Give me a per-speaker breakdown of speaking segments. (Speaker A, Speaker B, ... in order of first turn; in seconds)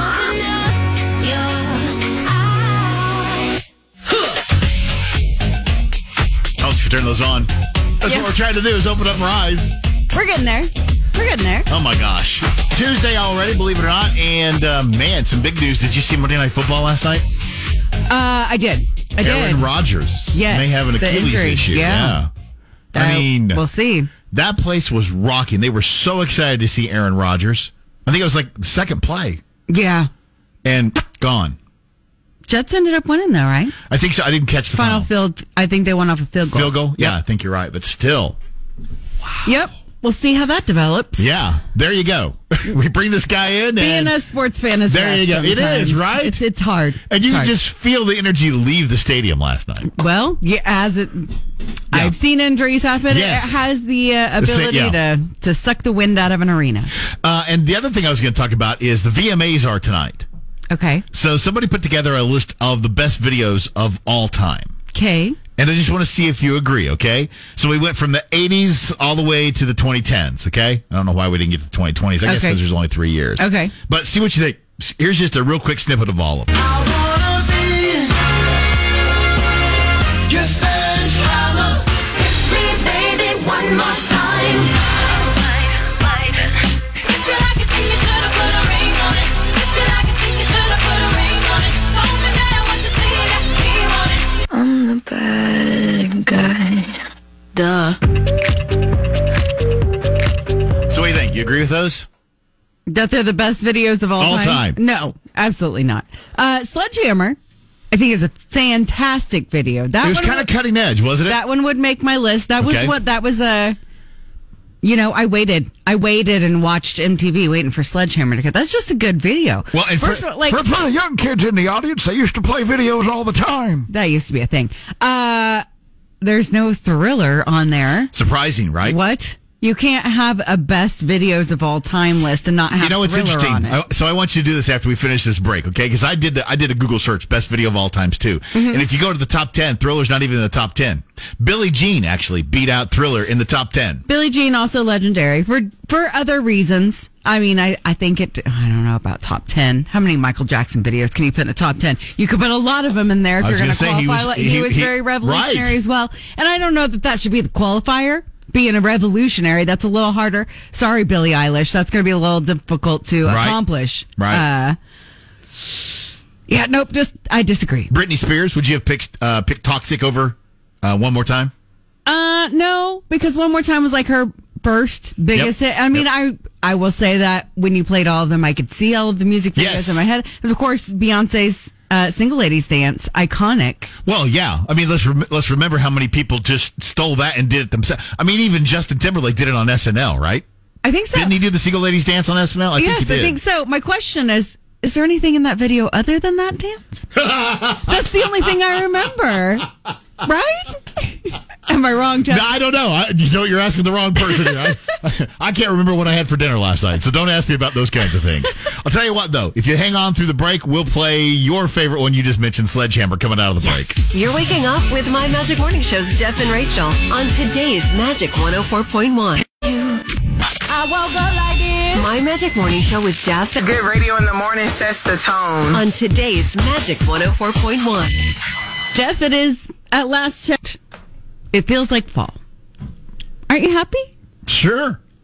Speaker A: 1.2-3.3, 82.3-84.6, 85.8-86.3, 87.1-97.0, 97.6-97.9
Speaker B: 6.6-9.7, 11.7-17.3, 19.2-22.3, 22.9-23.6, 24.3-29.4, 30.6-31.6, 33.9-35.1, 36.5-38.4, 41.2-44.1, 44.9-46.4, 47.1-49.9, 53.1-53.7, 54.4-55.0, 57.2-60.3, 61.1-64.7, 65.6-76.7, 100.9-102.1, 104.2-104.8, 110.0-111.4, 112.6-113.0, 119.7-123.9, 128.1-129.0, 132.7-144.0, 153.4-155.8, 163.2-163.6, 164.2-164.4, 167.9-171.5, 175.3-176.0, 179.6-180.1, 184.1-190.4, 191.1-193.4, 197.2-198.0, 202.3-214.0, 234.5-235.0
Speaker C: 10.1-11.7, 18.1-19.7, 20.3-22.2, 22.9-24.1, 29.7-30.1, 32.5-33.7, 34.8-37.1, 39.4-41.3, 43.8-47.5, 49.9-51.3, 51.9-56.9, 60.7-61.0, 64.9-65.4, 72.2-72.6, 73.4-73.7, 102.9-107.4, 107.9-110.5, 111.3-113.8, 114.8-120.7, 123.9-125.7, 126.2-128.1, 128.8-133.8, 138.5-138.8, 144.1-164.8, 166.5-167.9, 172.1-183.9, 190.8-191.4, 192.8-197.0, 197.9-199.7, 200.2-202.4, 220.7-222.0, 228.9-230.8, 231.5-232.4, 233.5-234.1
Speaker D: 214.1-220.0, 221.9-223.6, 225.7-228.2
Speaker E: 223.6-225.8